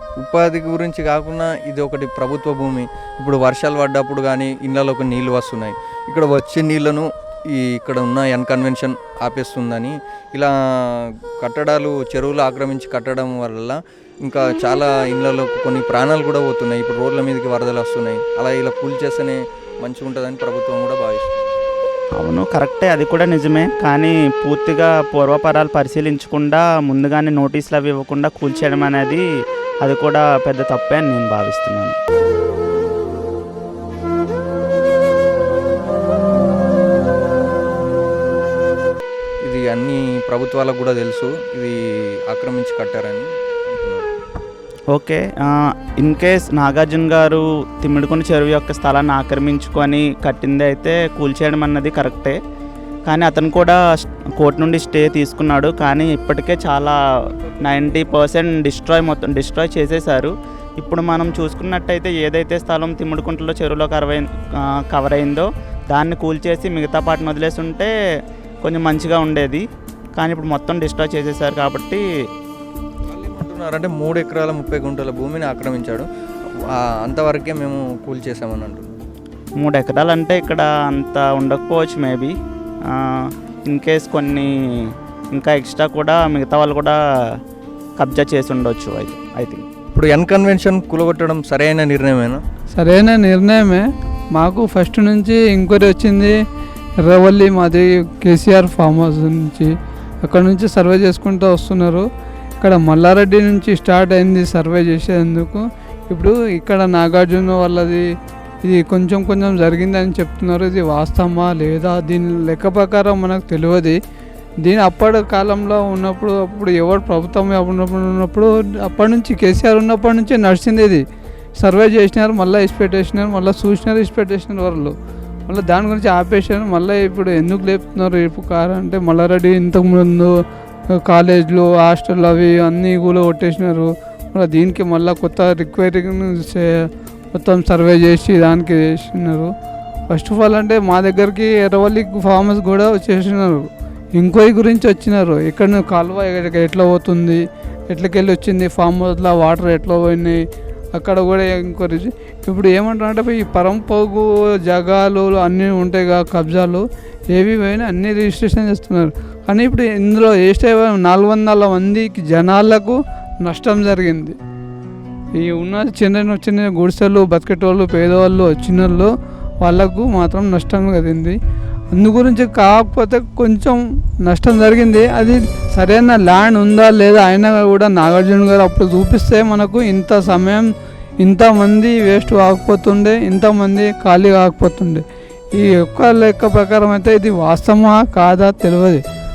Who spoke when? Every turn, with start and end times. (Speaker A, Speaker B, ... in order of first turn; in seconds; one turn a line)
Speaker A: 0.2-21.5
Speaker B: 22.2-29.2
Speaker B: 29.8-32.0
Speaker A: 39.5-41.8
Speaker A: 42.3-44.1
Speaker B: 44.9-52.4
Speaker B: 53.1-53.8
Speaker B: 54.4-57.0
Speaker B: 57.6-64.3
Speaker B: 64.9-67.9
Speaker B: 68.6-69.6
Speaker B: 70.2-72.0
Speaker A: 73.1-76.1
Speaker A: 76.7-79.0
Speaker B: 79.6-82.3
Speaker B: 83.7-87.0
Speaker B: 88.0-89.7
Speaker A: 89.9-92.4
Speaker C: 92.7-96.4
Speaker C: 97.0-99.7
Speaker C: 100.2-102.1
Speaker C: 102.6-108.1
Speaker C: 108.7-114.0
Speaker C: 114.6-121.0
Speaker C: 121.6-124.9
Speaker C: 125.5-130.3
Speaker C: 131.1-139.5
Speaker C: 140.1-150.4
Speaker C: 150.9-164.4
Speaker C: 165.4-171.4
Speaker C: 171.9-180.7
Speaker C: 181.2-185.0
Speaker C: 185.6-189.0